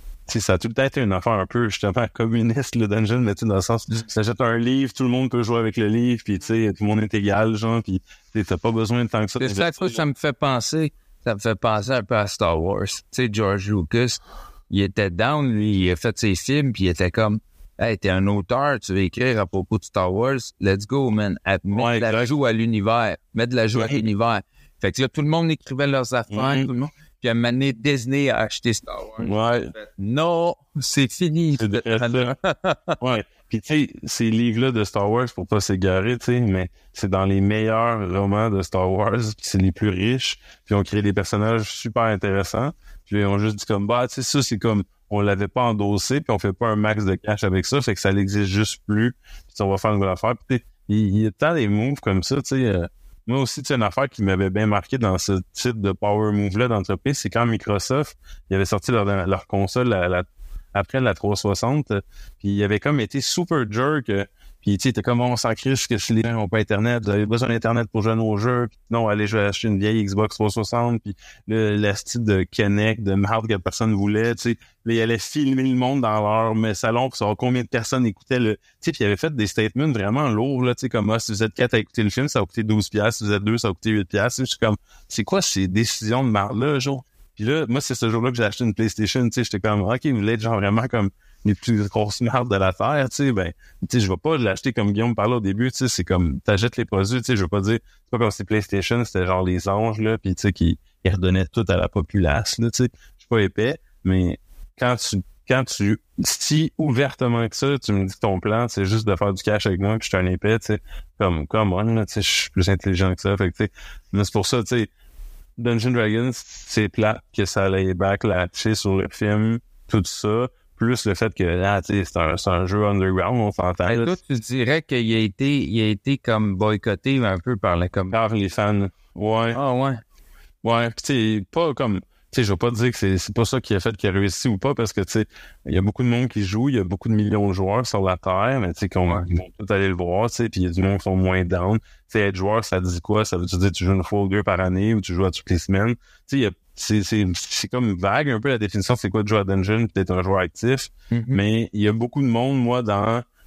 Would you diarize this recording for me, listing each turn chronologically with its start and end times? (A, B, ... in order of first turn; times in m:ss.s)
0:00.3-0:10.0 A
0:09.4-0:33.0 B
0:21.7-0:22.3 A
0:23.7-0:24.1 A
0:26.3-0:26.7 A
0:29.2-0:29.7 A
0:31.6-0:32.3 A
0:33.0-1:54.9 A
1:55.6-2:04.2 A
2:03.9-2:08.1 B
2:08.1-2:09.6 A
2:09.5-2:10.0 B
2:10.6-2:33.2 A
2:31.1-2:31.4 B